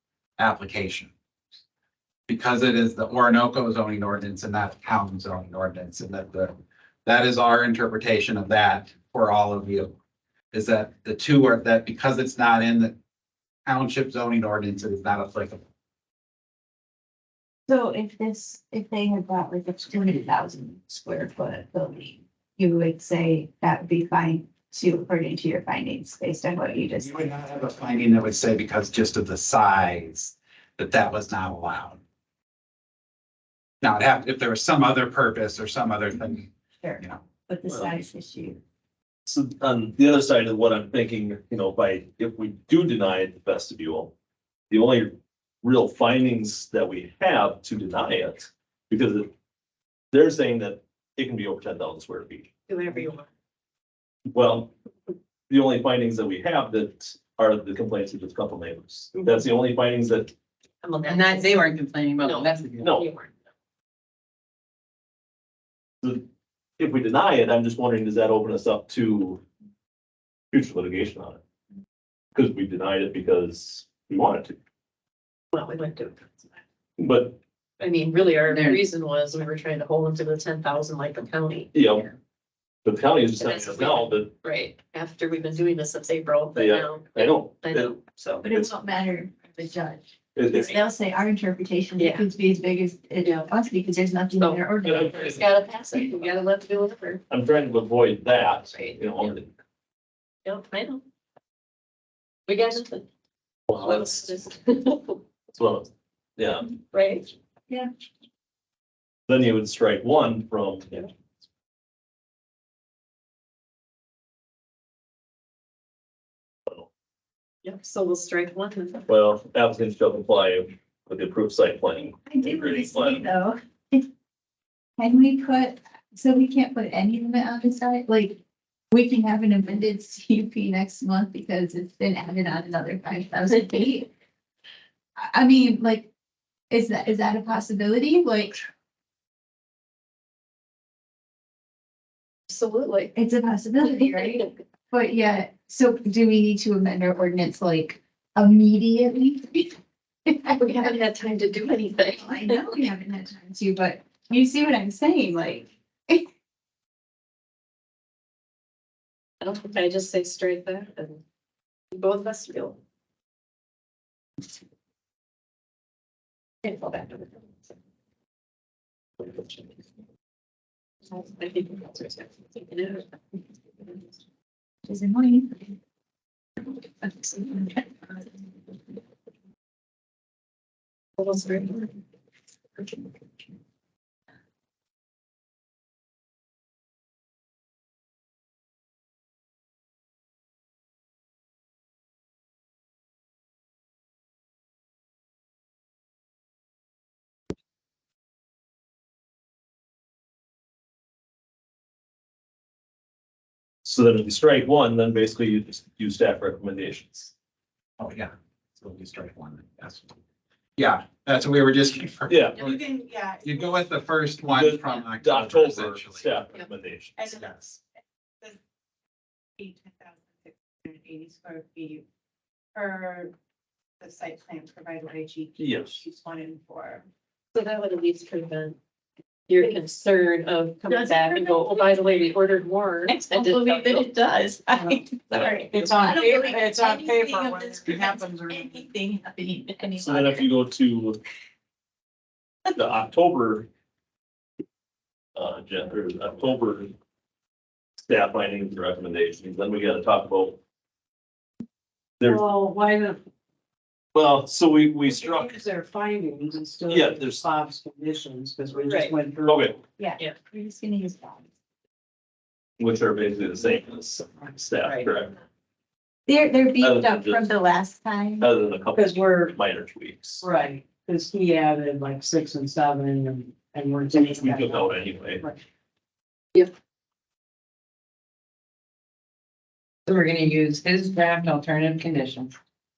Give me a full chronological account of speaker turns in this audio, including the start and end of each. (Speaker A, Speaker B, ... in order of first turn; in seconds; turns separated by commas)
Speaker A: 0.4-1.1, Speaker A: 2.3-9.9, Speaker A: 10.5-13.0, Speaker A: 13.7-15.6, Speaker B: 17.7-27.1, Speaker A: 27.0-32.0, Speaker A: 33.8-36.5, Speaker B: 36.8-38.6, Speaker C: 37.7-38.0, Speaker C: 39.2-44.1, Speaker C: 44.7-49.3, Speaker C: 50.1-52.5, Speaker D: 52.7-53.3, Speaker C: 54.3-54.7, Speaker C: 55.5-60.3, Speaker D: 60.8-63.3, Speaker E: 61.0-63.0, Speaker C: 66.8-69.4, Speaker C: 70.5-71.4, Speaker C: 72.3-74.6, Speaker D: 75.5-76.5, Speaker C: 77.0-77.4, Speaker D: 77.8-81.7, Speaker E: 78.5-78.8, Speaker C: 81.7-82.1, Speaker C: 82.8-84.3, Speaker D: 83.3-88.4, Speaker C: 86.5-87.9, Speaker B: 88.4-95.3, Speaker C: 90.3-90.7, Speaker D: 90.5-90.8, Speaker D: 92.0-92.2, Speaker D: 93.2-93.5, Speaker D: 94.3-97.2, Speaker C: 94.8-95.4, Speaker B: 95.9-96.3, Speaker C: 97.3-99.5, Speaker D: 98.6-99.3, Speaker D: 100.4-101.0, Speaker D: 102.5-103.1, Speaker D: 103.7-105.2, Speaker C: 105.5-106.7, Speaker D: 106.9-107.3, Speaker C: 109.3-111.0, Speaker D: 117.6-119.1, Speaker C: 119.1-123.3, Speaker B: 122.2-124.1, Speaker B: 125.0-134.1, Speaker B: 135.2-136.1, Speaker B: 136.7-138.7, Speaker D: 142.5-143.1, Speaker B: 143.1-151.2, Speaker D: 144.2-144.4, Speaker D: 150.5-152.6, Speaker B: 152.1-156.2, Speaker D: 159.4-161.2, Speaker D: 161.9-162.8, Speaker D: 166.6-167.4, Speaker D: 169.2-169.7, Speaker D: 171.1-173.1, Speaker D: 173.8-174.1, Speaker B: 174.8-175.7, Speaker D: 177.0-177.8, Speaker D: 181.2-182.0, Speaker D: 182.8-183.1, Speaker C: 203.8-207.3, Speaker A: 208.0-210.1, Speaker A: 210.8-212.8, Speaker C: 212.3-212.6, Speaker F: 212.6-213.8, Speaker A: 213.4-216.3, Speaker C: 214.5-217.3, Speaker F: 217.2-217.4, Speaker A: 217.3-217.8, Speaker F: 219.6-222.0, Speaker F: 222.7-223.3, Speaker F: 224.0-227.0, Speaker C: 225.6-226.0, Speaker D: 227.5-228.8, Speaker D: 229.5-234.1, Speaker B: 230.9-232.0, Speaker B: 233.1-240.5, Speaker C: 235.3-235.6, Speaker G: 235.7-238.6, Speaker C: 240.0-241.2, Speaker C: 242.7-243.7, Speaker C: 245.3-246.9, Speaker C: 248.0-250.6, Speaker C: 252.2-252.5, Speaker G: 252.3-253.2, Speaker C: 254.1-255.6, Speaker G: 255.1-259.7, Speaker C: 256.9-257.4, Speaker D: 258.8-259.2, Speaker C: 259.4-259.8, Speaker B: 260.0-261.5, Speaker C: 262.8-265.3, Speaker D: 264.8-265.1, Speaker B: 266.3-268.5, Speaker C: 266.8-267.5, Speaker C: 268.4-270.4, Speaker G: 268.9-269.5, Speaker G: 270.4-275.6, Speaker C: 274.1-275.4, Speaker E: 280.1-282.5